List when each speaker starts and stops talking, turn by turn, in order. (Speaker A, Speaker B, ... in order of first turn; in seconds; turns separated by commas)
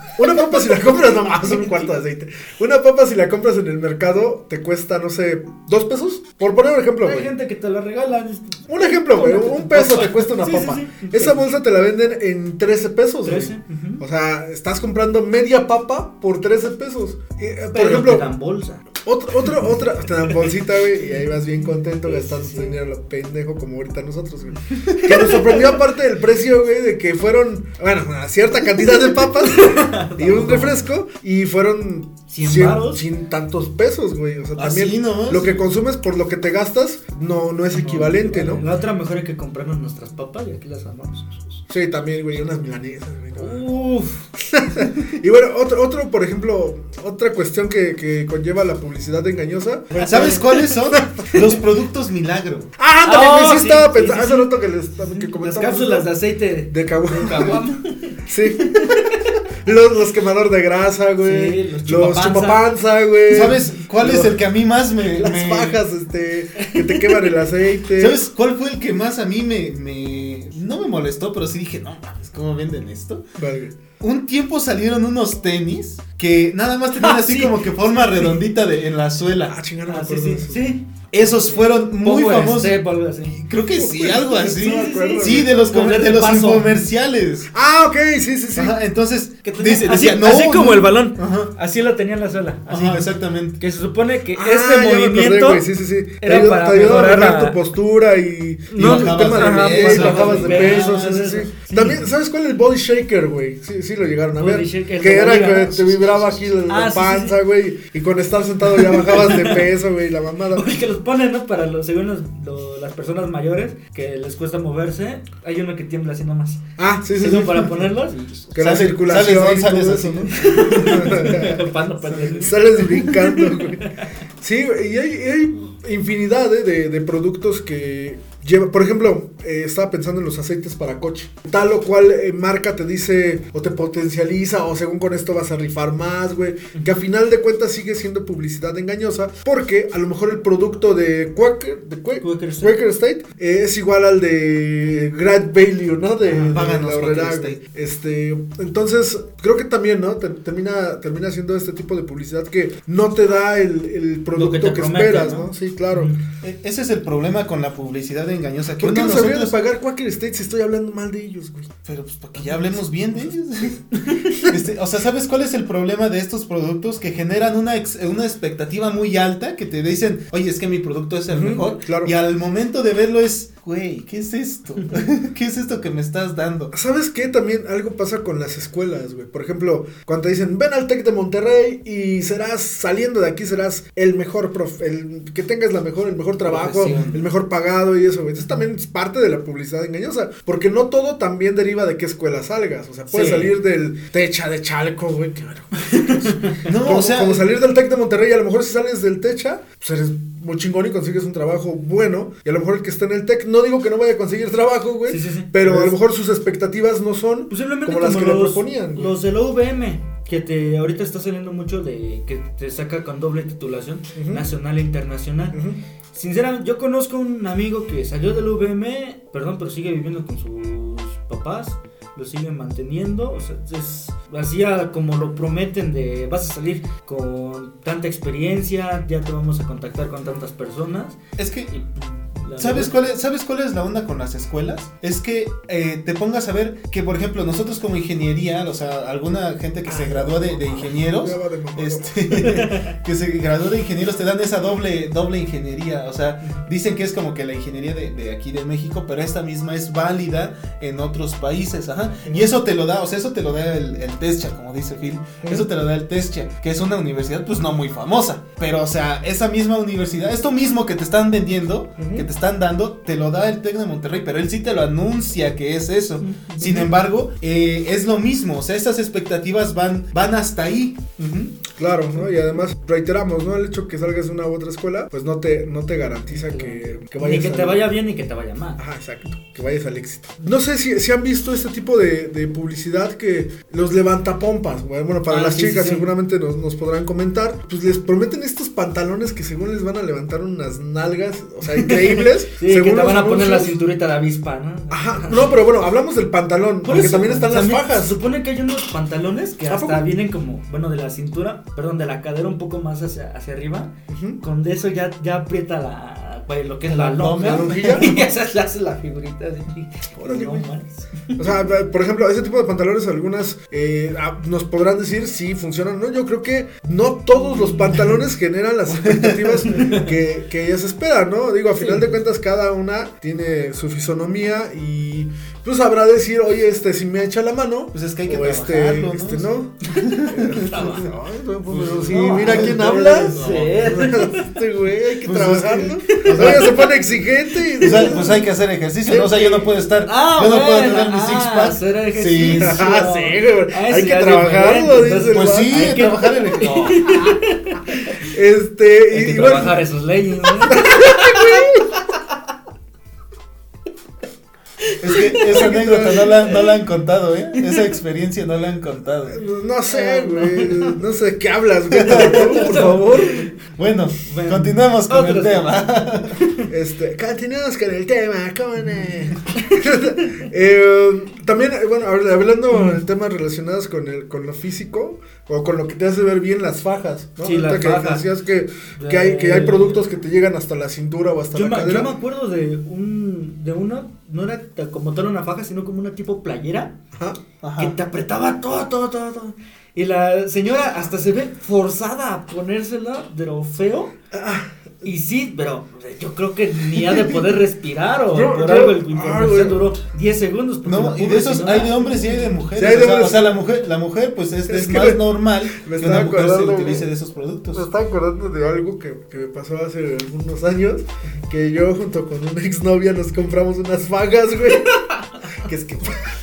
Speaker A: 0.2-7.3, Speaker B: 0.4-1.9, Speaker B: 7.0-11.4, Speaker A: 8.7-18.2, Speaker B: 13.2-14.0, Speaker B: 17.7-18.8, Speaker A: 19.0-38.6, Speaker B: 21.0-22.8, Speaker B: 25.0-25.7, Speaker B: 29.2-30.8, Speaker B: 32.3-33.0, Speaker C: 34.5-35.7, Speaker B: 37.7-41.6, Speaker A: 41.7-43.6, Speaker B: 43.4-44.3, Speaker A: 44.5-51.4, Speaker B: 50.0-50.6, Speaker C: 50.0-52.7, Speaker A: 52.8-56.1, Speaker B: 53.0-59.3, Speaker A: 56.7-57.6, Speaker A: 58.2-64.4, Speaker B: 61.2-62.6, Speaker C: 63.3-65.8, Speaker A: 65.0-68.2, Speaker B: 66.6-67.3, Speaker C: 68.0-73.2, Speaker A: 73.4-73.8, Speaker C: 74.0-79.5, Speaker B: 76.9-77.6, Speaker A: 79.5-80.7, Speaker B: 79.8-83.4, Speaker C: 81.1-87.5, Speaker A: 83.5-85.6, Speaker B: 84.4-86.8, Speaker A: 87.5-88.8, Speaker C: 88.5-91.5, Speaker B: 89.4-95.6, Speaker C: 92.7-93.6, Speaker A: 94.3-110.7, Speaker B: 96.2-97.5, Speaker B: 98.7-102.1, Speaker C: 98.8-101.2, Speaker B: 104.3-107.3, Speaker B: 108.7-109.7, Speaker B: 110.5-116.6, Speaker A: 116.8-117.8, Speaker B: 117.2-118.2, Speaker C: 118.1-121.2, Speaker A: 118.5-121.6, Speaker B: 120.3-124.0, Speaker C: 122.2-122.5, Speaker A: 122.4-123.9, Speaker A: 124.4-156.1, Speaker B: 142.2-142.8, Speaker C: 146.3-147.6, Speaker B: 154.3-156.2, Speaker C: 156.4-159.5, Speaker A: 158.8-161.7, Speaker C: 161.8-163.8, Speaker A: 162.4-163.2, Speaker B: 164.1-164.4, Speaker C: 164.4-176.7, Speaker A: 171.3-172.1, Speaker A: 176.7-209.1, Speaker C: 186.4-187.3, Speaker B: 193.1-193.5, Speaker B: 196.0-196.7, Speaker C: 196.7-197.5, Speaker B: 205.1-206.0, Speaker B: 207.5-215.6, Speaker A: 214.1-214.4, Speaker A: 215.5-215.8, Speaker B: 216.1-231.2, Speaker C: 231.4-231.7, Speaker B: 231.7-233.1, Speaker C: 232.6-271.6, Speaker B: 239.8-240.6, Speaker A: 240.3-242.5, Speaker B: 242.4-242.9, Speaker A: 255.4-255.7, Speaker A: 262.0-262.2, Speaker B: 266.2-266.8, Speaker A: 271.8-277.9, Speaker B: 276.3-278.8, Speaker A: 278.8-293.8, Speaker B: 285.3-286.1, Speaker B: 291.7-295.8, Speaker A: 294.9-298.1, Speaker B: 296.8-303.9, Speaker A: 299.7-300.1, Speaker A: 304.1-304.4, Speaker B: 304.4-311.5, Speaker C: 306.8-308.2, Speaker A: 307.4-308.1, Speaker A: 310.2-310.7, Speaker A: 311.4-338.4, Speaker B: 317.3-318.0, Speaker C: 318.9-319.7, Speaker B: 319.7-320.1, Speaker B: 321.7-322.2, Speaker C: 327.9-330.5, Speaker B: 330.5-331.1, Speaker C: 331.7-334.0, Speaker B: 332.1-334.5, Speaker C: 335.2-336.9, Speaker B: 336.1-336.9, Speaker B: 337.7-338.4, Speaker C: 337.8-342.8, Speaker A: 339.0-339.8, Speaker B: 340.0-348.2, Speaker A: 342.5-345.9, Speaker C: 345.3-347.3, Speaker A: 348.3-349.8, Speaker B: 349.1-352.0, Speaker A: 350.7-351.8, Speaker C: 355.0-359.4, Speaker B: 355.1-356.8, Speaker A: 355.5-356.3, Speaker B: 357.6-357.9, Speaker A: 359.3-363.5, Speaker B: 359.9-360.9, Speaker C: 361.9-362.6, Speaker B: 362.0-363.5, Speaker C: 363.8-366.4, Speaker B: 364.2-365.8, Speaker B: 366.4-366.6, Speaker A: 366.7-382.1, Speaker B: 372.7-373.0, Speaker B: 377.4-378.2, Speaker B: 378.9-380.0, Speaker B: 381.5-386.9, Speaker C: 387.6-387.9, Speaker B: 387.8-394.1, Speaker A: 394.3-395.1, Speaker B: 395.0-402.5, Speaker A: 398.3-399.8, Speaker C: 400.8-407.9, Speaker A: 402.7-403.5, Speaker A: 404.7-407.1, Speaker A: 407.7-415.0, Speaker A: 415.6-416.2